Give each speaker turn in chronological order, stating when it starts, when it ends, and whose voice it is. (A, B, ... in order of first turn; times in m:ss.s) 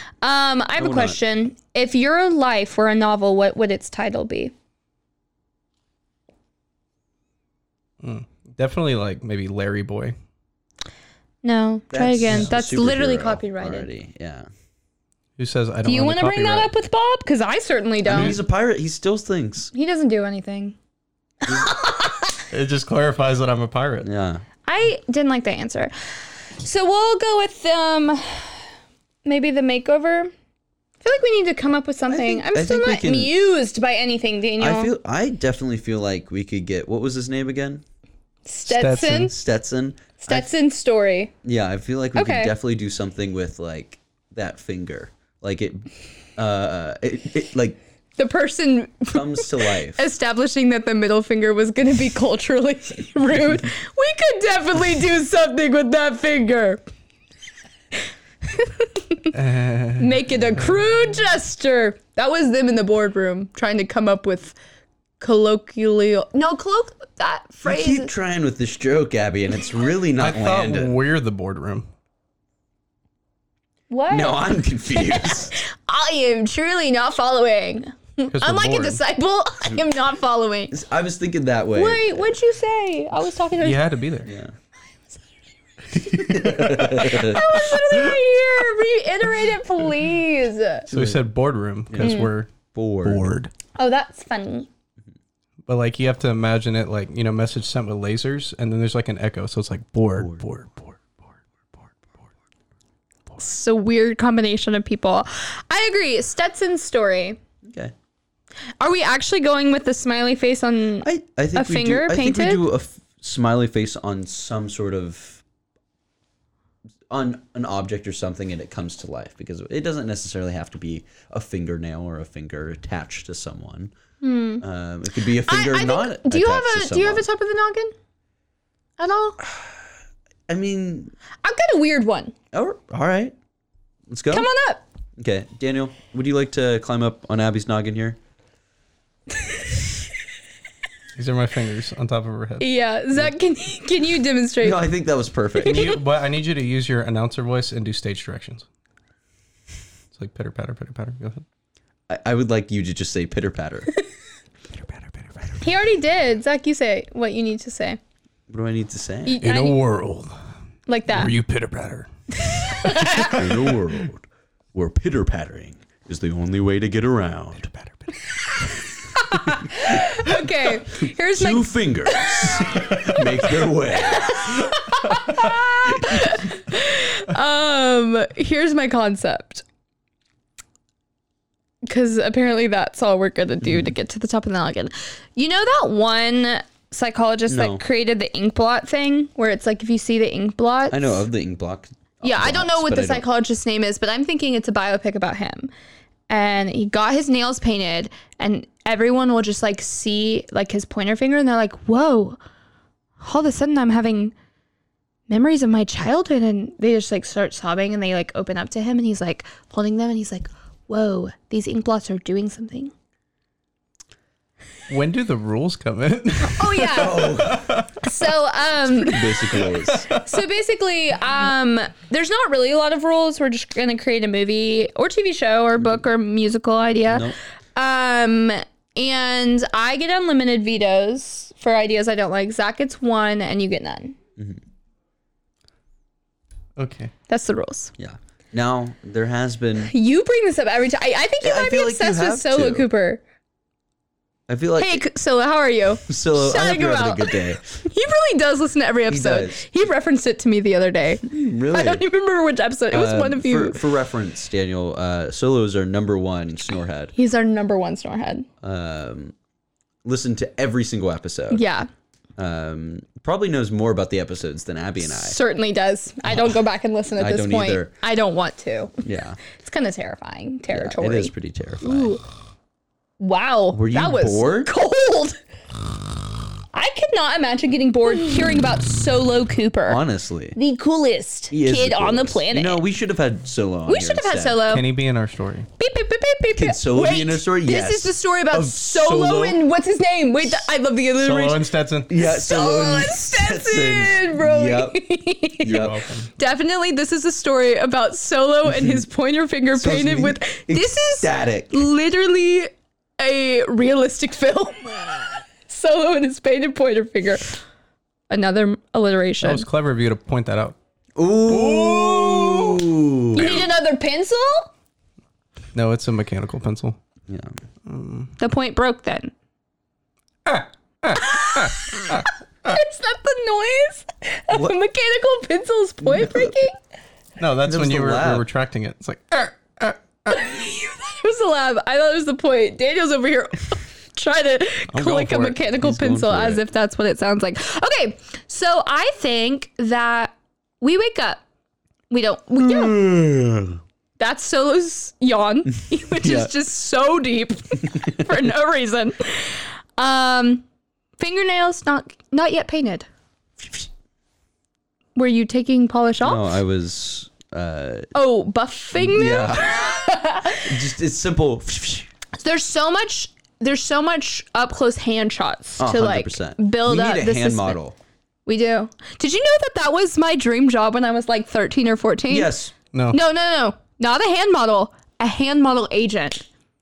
0:00.2-0:04.5 A
0:00.8-0:01.2 B
0:08.0-0:10.2 C
0:11.4-0:13.9 A
0:11.9-0:14.5 B
0:15.4-0:16.7 C
0:15.8-0:18.4 A
0:18.0-0:19.7 B
0:19.7-0:20.8 A
0:21.4-0:22.4 A
0:22.5-0:24.1 C
0:24.0-0:24.4 B
0:24.6-0:25.9 A
0:26.6-0:28.6 A
0:29.2-0:30.3 A
0:31.0-0:34.9 A
0:32.1-0:33.3 B
0:34.6-0:37.8 B
0:38.4-0:39.3 A
0:38.7-0:39.3 C
0:39.0-0:40.5 B
0:40.2-0:41.3 A
0:41.4-0:47.8 B
0:42.1-0:42.5 A
0:48.2-0:56.8 A
0:49.1-0:50.0 B
0:58.4-0:59.3 A
0:59.3-1:00.1 C
1:00.0-1:04.6 A
1:05.2-1:08.1 A
1:07.6-1:11.0 B
1:10.2-1:11.9 C
1:13.9-1:20.7 A
1:14.1-1:15.6 B
1:18.3-1:19.0 C
1:20.7-1:22.4 B
1:21.7-1:23.8 A
1:23.6-1:24.3 C
1:24.2-1:24.5 B
1:26.1-1:27.5 B
1:26.2-1:26.7 C
1:27.0-1:30.9 A
1:30.9-1:31.2 B
1:30.9-1:32.5 C
1:31.9-1:33.3 B
1:32.0-1:32.3 A
1:33.0-1:33.5 C
1:33.7-1:34.7 A
1:35.7-1:41.0 C
1:40.2-1:40.4 B
1:43.4-1:47.4 A
1:47.6-1:47.9 B
1:48.8-1:52.6 A
1:51.0-1:55.4 B
1:57.1-2:03.9 B
2:04.2-2:04.6 A
2:04.6-2:07.3 B
2:05.2-2:07.9 A
2:09.0-2:09.4 A
2:10.5-2:11.1 B
2:11.4-2:12.3 A
2:12.5-2:13.3 B
2:14.1-2:14.5 B
2:14.3-2:14.8 A
2:15.2-2:18.2 B
2:21.1-2:22.7 C
2:22.6-2:24.8 A
2:24.6-2:26.0 B
2:25.6-2:26.0 A
2:25.6-2:28.6 C
2:30.1-2:31.4 C
2:32.1-2:33.9 B
2:35.6-2:38.0 A
2:38.5-2:39.4 B
2:39.2-2:39.8 A
2:39.4-2:40.3 C
2:40.9-2:41.3 A
2:41.1-2:42.1 C
2:42.5-2:43.4 A
2:42.6-2:43.6 C
2:43.3-2:47.7 B
2:48.6-2:53.2 A
2:51.3-2:54.7 B
2:53.9-2:59.6 A
2:55.8-2:56.3 B
3:01.8-3:11.2 A
3:03.6-3:03.9 B
3:07.5-3:07.8 B
3:10.9-3:13.2 B
3:12.2-3:15.7 A
3:16.3-3:22.4 A
3:23.2-3:24.3 A
3:25.3-3:32.9 A
3:34.9-3:38.0 C
3:36.5-3:37.4 A
3:36.9-3:37.8 B
3:38.0-3:39.3 A
3:38.9-3:40.1 B
3:39.5-3:40.2 C
3:40.1-3:54.2 A
3:45.8-3:46.0 B
3:47.1-3:47.4 B
3:54.4-3:54.6 B
3:56.8-3:57.1 C
3:57.3-3:57.9 A
3:58.0-3:59.9 B
3:59.9-4:03.2 A
4:01.4-4:02.9 B
4:04.5-4:05.0 B
4:04.8-4:13.8 A
4:06.0-4:07.8 B
4:09.1-4:09.6 B
4:11.2-4:12.0 B
4:12.9-4:17.1 B
4:17.1-4:18.5 A
4:18.6-4:19.3 B
4:20.0-4:21.6 B
4:21.5-4:21.9 A
4:22.4-4:25.4 B
4:25.1-4:32.2 A
4:27.2-4:27.9 B
4:29.0-4:29.4 B
4:30.7-4:32.2 B
4:33.2-4:35.4 A
4:33.7-4:34.7 B
4:36.7-4:40.0 A
4:39.9-4:40.6 B
4:40.5-4:42.8 A
4:41.5-4:44.6 B
4:43.9-4:44.8 A
4:44.7-4:45.7 C
4:45.8-5:07.6 A
4:46.5-4:49.6 B
4:51.2-4:52.1 C
4:52.1-4:55.0 B
4:55.6-4:56.0 B
4:55.6-4:56.3 C
4:58.6-4:59.0 B
4:59.7-5:01.8 B
5:08.3-5:09.6 A
5:09.4-5:10.8 C
5:11.2-5:13.7 B
5:11.5-5:12.7 C
5:13.3-5:14.7 A
5:15.7-5:17.0 C
5:17.3-5:17.5 B
5:17.8-5:18.3 C
5:18.4-5:19.3 A
5:20.4-5:22.3 C
5:21.2-5:26.8 A
5:24.5-5:24.7 B
5:26.0-5:26.5 B
5:27.4-5:30.3 C
5:27.6-5:28.5 B
5:30.3-5:41.4 A
5:34.9-5:35.6 C
5:35.8-5:36.6 B
5:42.1-5:43.0 A
5:42.6-5:43.8 B
5:44.2-5:50.6 A
5:45.9-5:46.5 B
5:51.2-5:53.1 A
5:55.2-5:56.6 A
5:56.2-5:58.1 B
5:58.1-6:00.7 A
5:59.0-6:00.0 B
6:00.6-6:02.1 B
6:02.4-6:07.8 A
6:05.8-6:08.0 B
6:08.4-6:12.5 A
6:12.3-6:12.7 B
6:13.1-6:16.4 A